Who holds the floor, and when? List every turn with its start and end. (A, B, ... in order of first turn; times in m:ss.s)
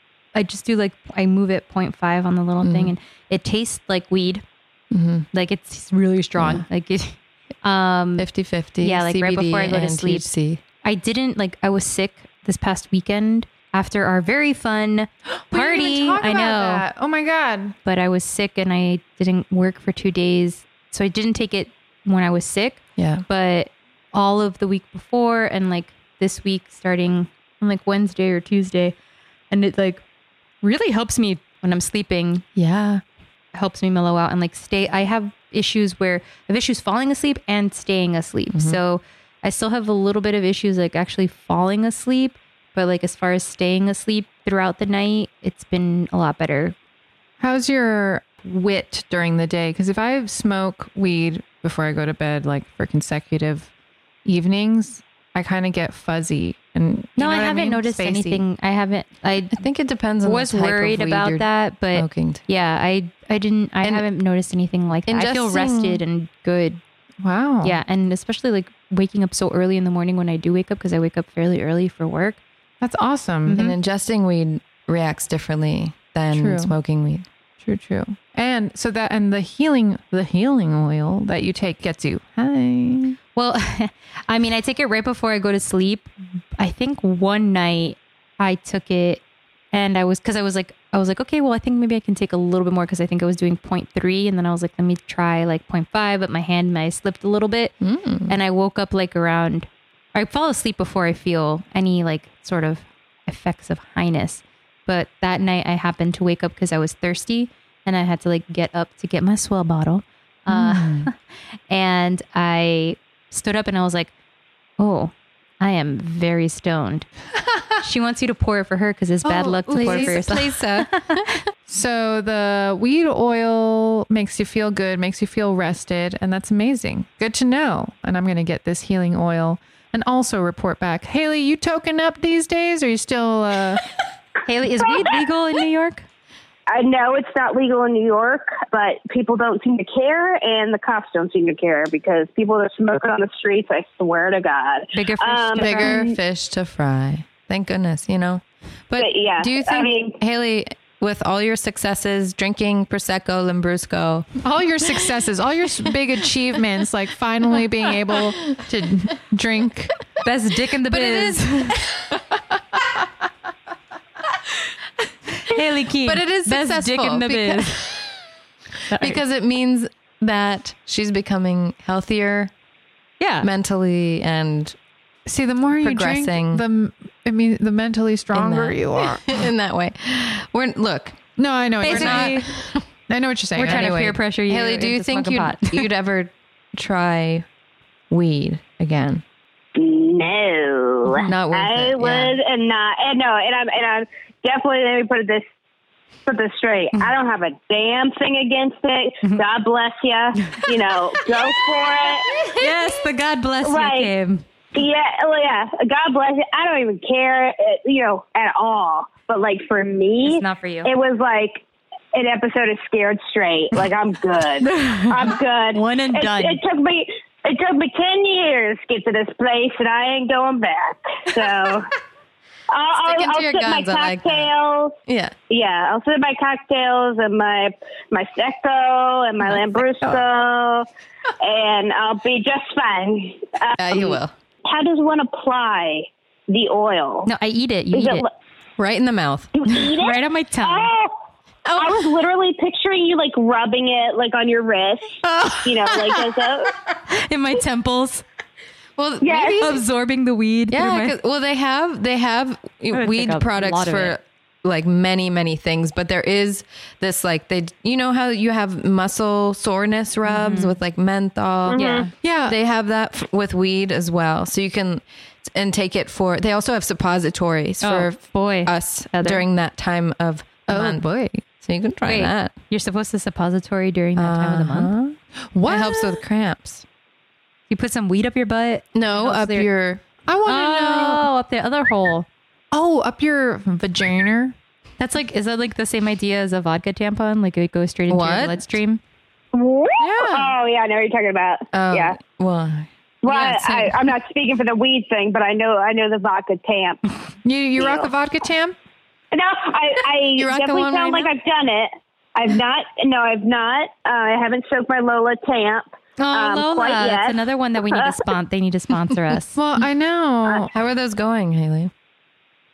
0:00.3-0:04.4 A
0:02.6-0:02.9 B
0:04.9-0:05.3 B
0:05.3-0:08.3 A
0:06.4-0:06.6 B
0:08.2-0:10.6 B
0:08.8-0:10.2 A
0:10.8-0:16.8 A
0:15.5-0:17.8 C
0:17.8-0:29.0 A
0:23.0-0:23.2 B
0:29.5-0:30.0 A
0:30.6-0:32.4 A
0:32.6-0:33.0 B
0:33.5-0:46.7 A
0:38.5-0:38.8 B
0:47.4-0:53.7 C
0:54.2-0:58.4 C
0:57.2-0:59.6 A
0:59.5-1:02.4 B
1:00.2-1:06.8 A
1:05.1-1:06.0 B
1:07.2-1:07.8 C
1:07.6-1:12.4 A
1:12.8-1:13.7 C
1:13.4-1:13.7 A
1:13.5-1:17.3 B
1:16.3-1:16.7 C
1:17.6-1:23.2 C
1:23.4-1:37.7 A
1:37.8-1:38.3 B
1:38.3-1:51.1 A
1:51.7-1:54.1 A
1:54.8-1:57.1 A
1:57.8-2:01.2 A
1:59.3-2:00.2 C
1:59.4-2:01.4 B
2:01.7-2:13.8 C
2:14.4-2:16.0 A
2:16.7-2:26.1 D
2:24.9-2:26.0 A
2:25.6-2:34.3 B
2:29.0-2:30.2 D
2:34.4-2:39.9 C
2:40.2-2:41.8 A
2:40.9-2:42.2 B
2:45.4-2:47.9 A
2:46.0-2:48.1 B
2:48.9-2:49.2 A
2:49.0-2:52.5 B
2:53.2-2:53.5 A
2:53.4-2:54.8 B
2:55.2-2:59.4 C
2:55.8-2:56.6 B
2:58.3-3:01.2 B
3:01.4-3:04.0 C
3:01.8-3:02.5 A
3:01.8-3:02.8 B
3:03.5-3:05.9 A
3:03.6-3:07.5 B
3:08.1-3:09.2 B
3:09.8-3:15.4 D
3:11.1-3:12.4 B
3:16.2-3:22.5 D
3:20.4-3:20.7 A
3:22.5-3:24.4 A
3:23.6-3:24.1 D
3:24.7-3:31.6 D
3:30.2-3:30.9 A
3:32.1-3:41.9 D
3:34.6-3:36.6 A
3:42.7-3:45.0 D
3:43.0-3:44.5 B
3:45.0-3:45.3 B
3:45.5-3:50.9 D
3:49.4-3:50.2 B
3:51.4-3:57.3 D
3:53.8-3:54.3 B
3:57.2-3:58.2 A
3:57.9-3:58.3 D
3:58.8-3:59.5 B
3:59.5-4:01.1 D
3:59.7-4:00.9 A
4:01.6-4:02.1 B
4:01.8-4:06.7 D
4:05.3-4:06.2 B
4:07.1-4:08.2 A
4:09.0-4:09.8 B
4:09.2-4:09.7 D
4:09.6-4:11.2 A
4:10.7-4:32.5 B
4:12.9-4:14.2 A
4:20.2-4:20.8 A
4:21.7-4:22.0 D
4:21.7-4:22.1 A
4:22.2-4:22.6 C
4:27.8-4:29.4 A
4:30.7-4:31.4 C
4:32.0-4:34.9 A
4:34.2-4:36.8 B
4:35.5-4:36.2 C
4:37.7-4:39.7 A
4:38.9-4:40.0 B
4:40.2-4:41.2 C
4:40.4-4:42.3 A
4:42.7-4:44.6 C
4:45.0-4:49.0 A
4:48.1-4:48.8 B
4:49.5-4:52.2 D
4:50.0-4:50.5 C
4:51.7-4:53.6 B
4:53.2-4:57.0 D
4:53.4-4:53.9 A
4:57.4-4:58.8 C
4:57.8-4:58.1 D
4:59.3-5:07.4 D
5:00.3-5:01.3 B
5:06.2-5:09.6 A
5:07.9-5:08.2 D
5:09.5-5:10.7 C
5:10.7-5:11.9 B